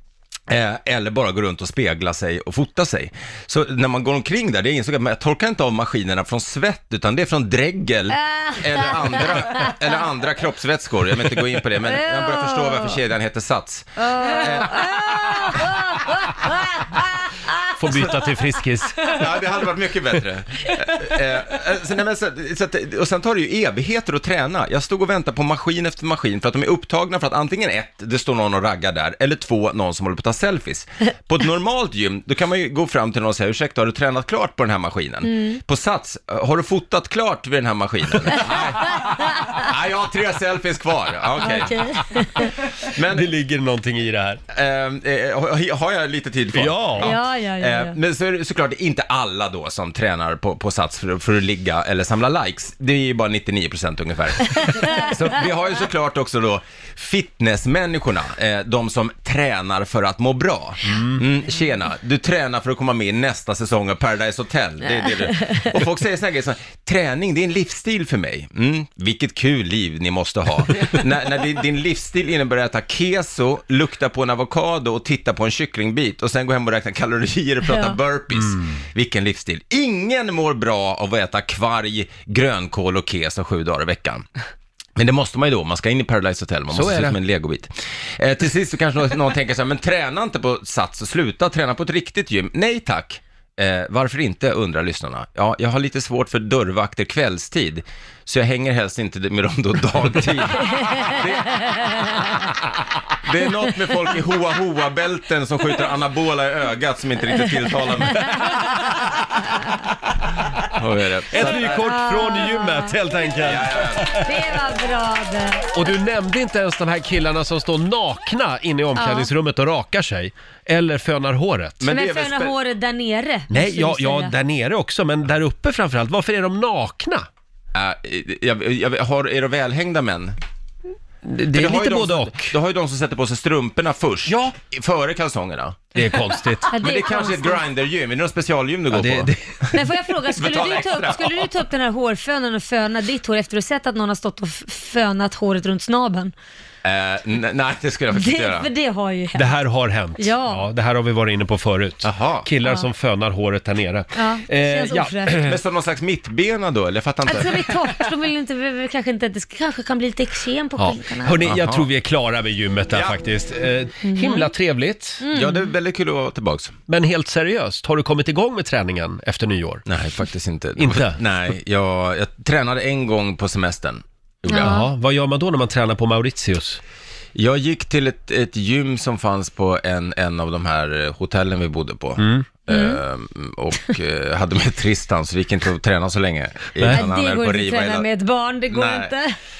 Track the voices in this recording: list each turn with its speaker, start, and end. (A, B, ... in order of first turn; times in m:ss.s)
0:00.5-0:15.7 A
0:08.1-0:09.9 B
0:11.8-0:13.0 B
0:14.0-0:18.1 B
0:17.7-0:19.2 C
0:19.1-0:41.9 A
0:35.2-0:35.6 B
0:39.0-0:39.6 B
0:41.4-0:42.6 B
0:42.4-0:44.4 C
0:42.9-0:43.3 A
0:44.5-1:24.3 A
0:46.5-0:47.1 C
0:47.0-0:48.0 B
0:54.6-0:55.1 B
1:05.0-1:05.7 B
1:17.7-1:18.0 B
1:18.4-1:18.7 C
1:25.0-1:42.3 A
1:26.7-1:27.2 C
1:40.6-1:42.5 B
1:43.2-1:48.5 A
1:48.2-1:48.6 B
1:48.3-1:50.7 C
1:50.7-1:51.9 A
1:51.3-1:54.5 C
1:51.4-1:53.0 B
1:53.4-1:54.1 A
1:54.2-1:55.9 B
1:55.7-2:01.8 C
1:59.0-1:59.3 B
2:01.8-2:02.6 A
2:01.8-2:04.4 B
2:03.5-2:07.3 C
2:07.7-2:10.4 A
2:11.2-2:12.6 C
2:11.5-2:19.7 A
2:14.3-2:14.6 C
2:16.0-2:16.7 C
2:16.7-2:17.6 B
2:18.9-2:19.8 C
2:19.7-2:26.3 B
2:20.3-2:21.5 A
2:26.8-2:28.7 A
2:28.1-2:29.5 B
2:29.4-2:35.6 C
2:30.2-2:30.7 B
2:32.0-2:32.5 A
2:32.6-2:32.9 B
2:34.2-2:35.4 B
2:35.4-2:37.6 A
2:37.3-2:41.4 B
2:40.8-2:45.2 C
2:41.4-2:41.9 A
2:42.9-2:43.2 A
2:44.0-2:44.5 B
2:45.2-2:45.7 B
2:45.3-2:46.7 A
2:46.9-2:49.9 C
2:49.9-2:54.8 A
2:50.8-2:51.2 C
2:54.5-2:54.9 B
2:54.5-2:56.8 C
2:57.4-3:08.1 A
3:02.2-3:02.5 C
3:02.7-3:03.0 B
3:06.8-3:07.1 C
3:06.9-3:09.3 B
3:08.7-3:09.1 A